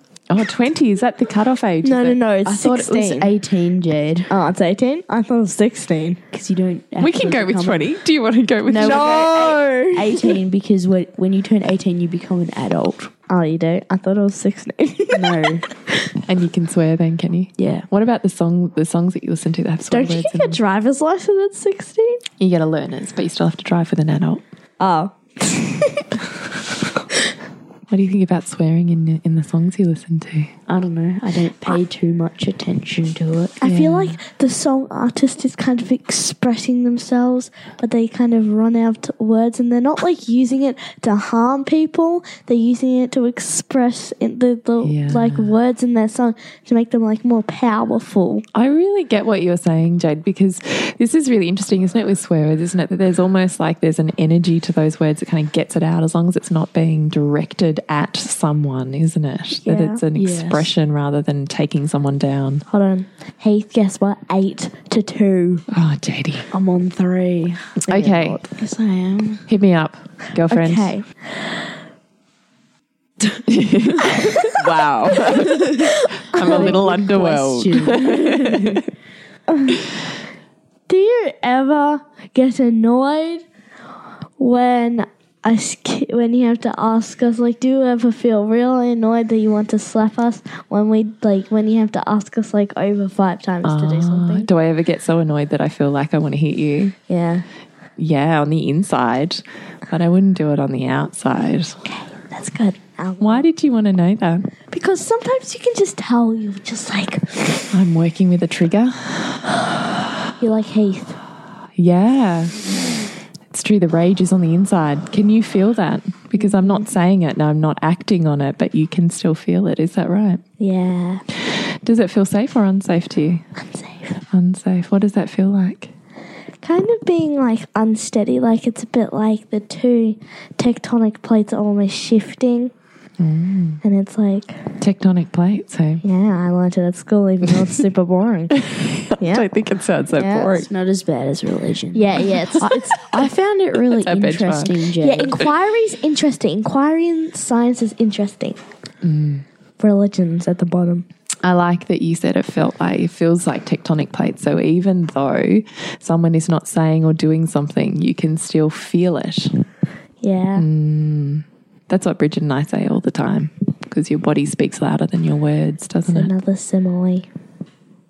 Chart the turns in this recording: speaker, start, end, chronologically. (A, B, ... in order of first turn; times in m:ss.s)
0:00.3-0:02.7 A
0:01.8-0:03.3 B
0:02.5-0:04.3 C
0:04.3-0:06.2 B
0:06.3-0:07.9 C
0:07.0-0:09.7 A
0:08.7-0:13.1 C
0:08.8-0:10.2 B
0:13.3-0:15.6 B
0:15.1-0:15.6 C
0:16.2-0:20.6 A
0:17.6-0:17.9 C
0:19.9-0:22.2 B
0:22.4-0:24.4 A
0:24.8-0:26.2 B
0:27.9-0:30.5 A
0:30.7-0:33.6 C
0:33.6-0:48.4 B
0:33.6-0:34.2 A
0:44.8-0:45.5 A
0:48.5-1:02.6 A
0:59.6-1:00.0 B
1:00.1-1:00.7 C
1:02.7-1:05.6 B
1:05.7-1:06.5 A
1:06.5-1:09.4 C
1:07.9-1:08.4 A
1:07.9-1:08.4 B
1:09.5-1:10.9 A
1:10.5-1:11.1 B
1:13.5-1:18.7 A
1:14.0-1:14.5 C
1:15.2-1:18.8 C
1:16.1-1:16.8 B
1:17.9-1:18.4 B
1:19.5-1:19.8 B
1:20.9-1:23.4 B
1:24.4-1:34.5 B
1:33.6-1:36.9 A
1:37.1-1:37.4 B
1:38.0-1:41.8 A
1:41.9-1:43.5 B
1:43.2-1:44.5 A
1:44.7-1:47.7 B
1:47.7-1:49.5 A
1:50.4-1:51.2 B
1:51.8-1:52.7 A
1:53.5-2:00.4 A
1:56.5-1:56.8 B
2:00.6-2:01.2 B
2:01.4-2:03.4 A
2:03.6-2:04.2 B
2:04.3-2:05.9 A
2:06.6-2:12.7 B
2:13.2-2:13.8 A
2:13.8-2:14.6 B
2:14.8-2:16.0 A
2:16.0-2:18.6 B
2:18.5-2:20.7 A
2:19.2-2:19.5 B
2:20.2-2:20.6 B
2:20.6-2:25.4 C
2:21.9-2:22.8 B
2:22.4-2:24.7 A
2:25.0-2:28.6 B
2:29.0-2:29.4 A
2:29.8-2:31.0 B
2:31.4-2:39.6 A
2:40.2-2:40.6 B
2:40.5-2:46.3 A
2:46.1-2:47.3 B